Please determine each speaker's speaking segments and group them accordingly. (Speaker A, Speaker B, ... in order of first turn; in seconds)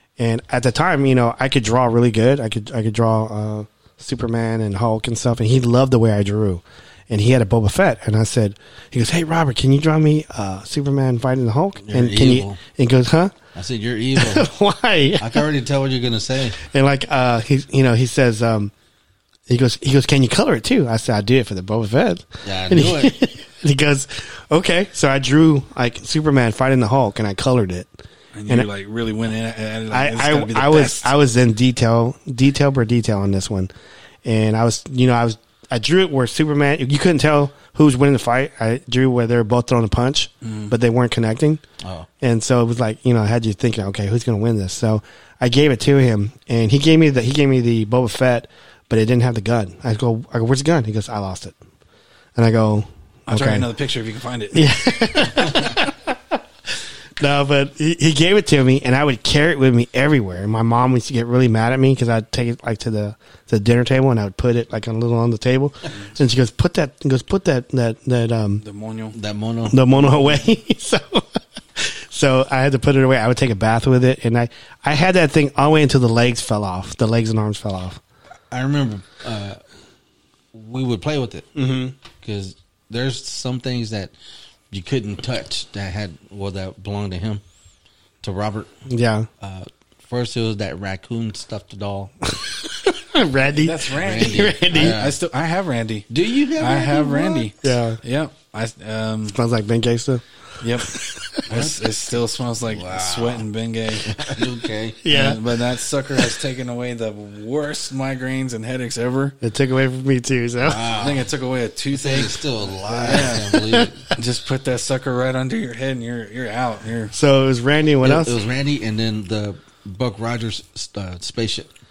Speaker A: 0.2-13.3, 14.1-15.5, 16.6-18.7, 19.5-27.9, 29.9-33.7, 34.2-41.6, 42.2-51.5, 52.4-53.7, 54.5-56.4, 57.2-68.6, 69.7-78.0, 81.5-82.0, 88.9-89.3, 92.4-95.0, 97.6-98.0, 99.3-100.2, 100.8-101.4, 105.0-105.4, 109.4-110.9, 117.1-118.4
Speaker B: 11.8-12.6, 13.6-14.5, 15.2-16.6, 22.4-23.2, 41.8-42.1, 69.1-70.1, 78.5-79.6, 80.5-81.5, 82.2-84.1, 84.7-87.4, 88.2-88.7, 89.4-92.1, 94.0-95.2, 96.1-97.5, 101.5-101.8, 102.6-103.5, 104.0-105.0, 110.6-111.3, 111.9-114.0, 118.0-121.7
Speaker C: 28.3-31.1, 40.4-40.7, 53.3-54.7, 55.2-55.7, 68.6-69.1, 93.5-99.4, 100.6-104.3, 105.0-109.4, 110.9-112.5, 113.0-117.1